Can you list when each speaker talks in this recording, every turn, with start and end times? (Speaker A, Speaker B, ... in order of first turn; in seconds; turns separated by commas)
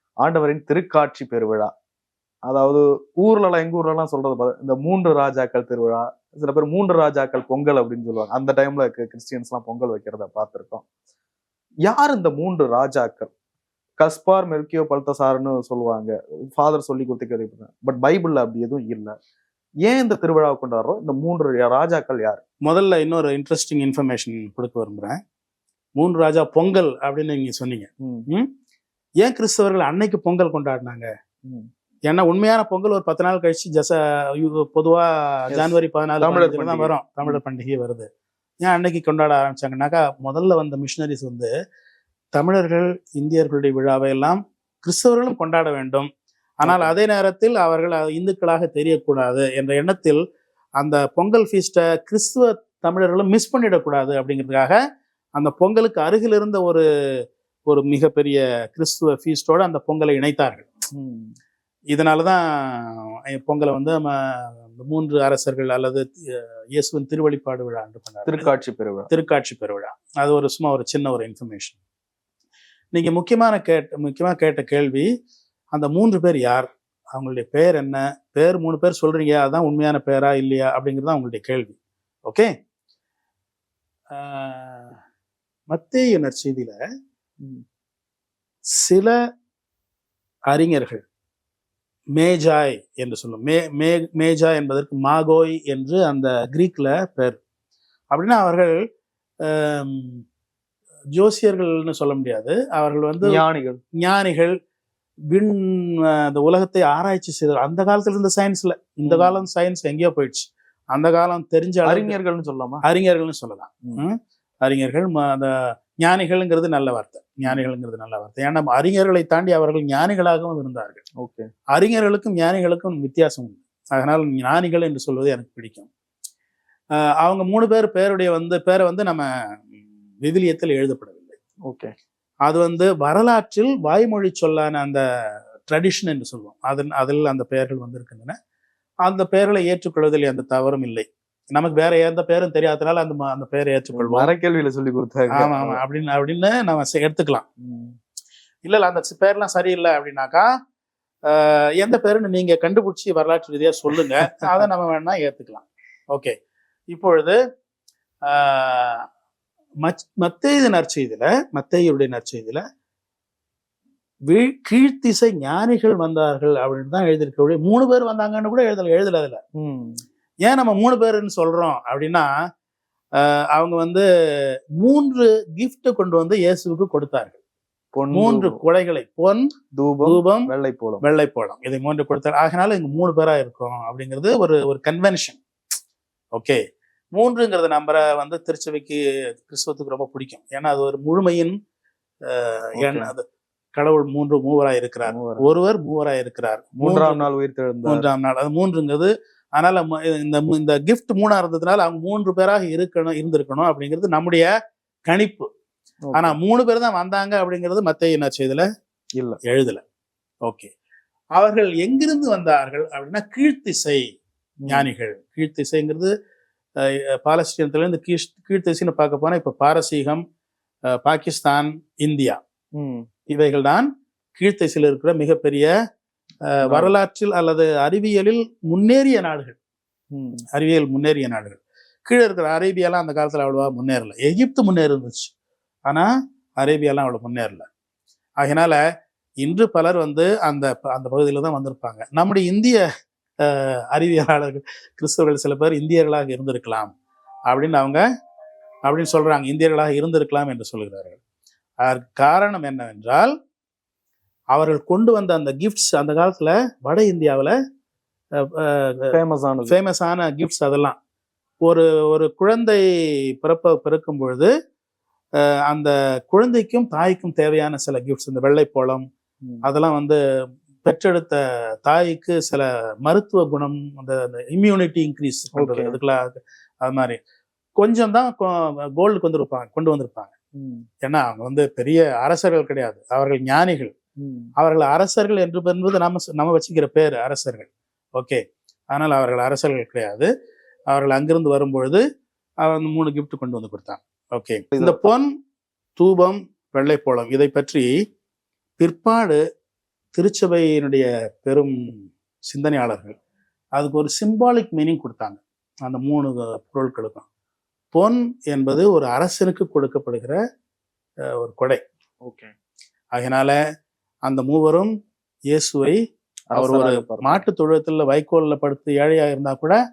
Speaker A: 0.2-1.7, Speaker A: 2.5-10.8, Speaker A: 11.9-13.3, Speaker A: 14.0-19.1, Speaker A: 19.9-22.4, Speaker B: 22.6-25.2, Speaker B: 26.0-28.5, Speaker B: 29.2-31.1, Speaker B: 32.1-38.1, Speaker A: 35.5-37.4, Speaker B: 38.6-41.5, Speaker B: 42.3-46.1, Speaker B: 46.6-50.2, Speaker A: 46.6-46.9, Speaker B: 50.8-54.8, Speaker B: 55.4-56.8, Speaker B: 57.7-60.7, Speaker A: 61.0-61.3, Speaker B: 61.9-68.5, Speaker A: 68.3-69.1, Speaker B: 69.1-71.8, Speaker B: 72.9-75.1, Speaker B: 75.7-82.5, Speaker B: 84.1-85.0, Speaker B: 85.7-86.8, Speaker B: 88.8-89.1, Speaker B: 90.5-91.0, Speaker B: 92.2-97.4, Speaker B: 98.1-98.8, Speaker B: 99.5-100.2, Speaker B: 101.2-103.4, Speaker A: 103.2-103.8, Speaker B: 104.0-104.5, Speaker B: 105.3-112.2, Speaker A: 109.0-109.5, Speaker A: 111.8-112.8, Speaker B: 112.8-121.0, Speaker A: 121.2-121.5, Speaker B: 121.7-125.9, Speaker B: 127.0-129.3, Speaker B: 130.2-131.4, Speaker A: 131.7-131.9, Speaker B: 132.4-135.0, Speaker B: 135.7-138.4, Speaker B: 139.1-144.3, Speaker A: 143.9-145.8, Speaker B: 145.3-147.4, Speaker A: 147.6-147.9, Speaker B: 148.7-150.5, Speaker B: 151.3-156.3, Speaker B: 156.9-157.4, Speaker B: 158.3-159.0, Speaker B: 159.8-162.6, Speaker B: 164.3-169.4, Speaker A: 169.6-170.0, Speaker B: 170.4-172.3, Speaker B: 173.2-174.0, Speaker B: 174.8-177.4, Speaker A: 177.9-178.6, Speaker B: 178.1-179.5, Speaker A: 179.8-181.0, Speaker B: 180.1-180.5, Speaker B: 181.0-185.4, Speaker B: 186.3-186.6, Speaker B: 187.1-191.5, Speaker B: 192.3-193.2, Speaker A: 192.8-193.1, Speaker B: 193.8-197.3, Speaker A: 195.1-195.4, Speaker A: 196.8-198.0, Speaker B: 197.9-204.5, Speaker B: 205.1-205.5, Speaker A: 206.1-206.4, Speaker B: 206.1-208.7, Speaker B: 209.4-209.8, Speaker B: 210.4-210.7, Speaker B: 211.4-214.1, Speaker A: 214.6-214.9, Speaker B: 214.7-216.1, Speaker B: 216.8-220.2, Speaker B: 221.0-222.4, Speaker A: 222.8-223.1, Speaker B: 223.3-225.7, Speaker B: 226.5-229.6, Speaker A: 230.1-230.4, Speaker B: 230.5-235.3, Speaker B: 235.9-237.7, Speaker B: 238.4-238.8, Speaker B: 239.4-242.8, Speaker B: 243.4-246.9, Speaker B: 247.5-248.0, Speaker B: 248.8-251.2, Speaker B: 251.8-253.3, Speaker B: 254.5-257.5, Speaker B: 258.5-259.1, Speaker A: 259.1-259.8, Speaker B: 259.7-261.0, Speaker B: 261.6-262.8, Speaker B: 263.4-264.5, Speaker B: 265.7-269.0, Speaker B: 269.6-270.2, Speaker B: 270.8-277.2, Speaker A: 275.6-276.0, Speaker B: 277.8-280.3, Speaker A: 280.6-280.9, Speaker B: 281.0-283.9, Speaker A: 284.2-284.5, Speaker B: 284.6-290.3, Speaker B: 290.9-292.0, Speaker B: 292.6-295.3, Speaker A: 294.7-295.0, Speaker B: 296.0-297.9, Speaker B: 298.8-299.4, Speaker B: 300.1-303.1, Speaker B: 303.8-307.2, Speaker B: 307.9-310.4, Speaker B: 311.4-311.8, Speaker A: 312.2-312.5, Speaker B: 313.1-313.6, Speaker B: 314.3-314.9, Speaker B: 315.5-316.0, Speaker A: 316.5-317.4, Speaker B: 316.6-319.8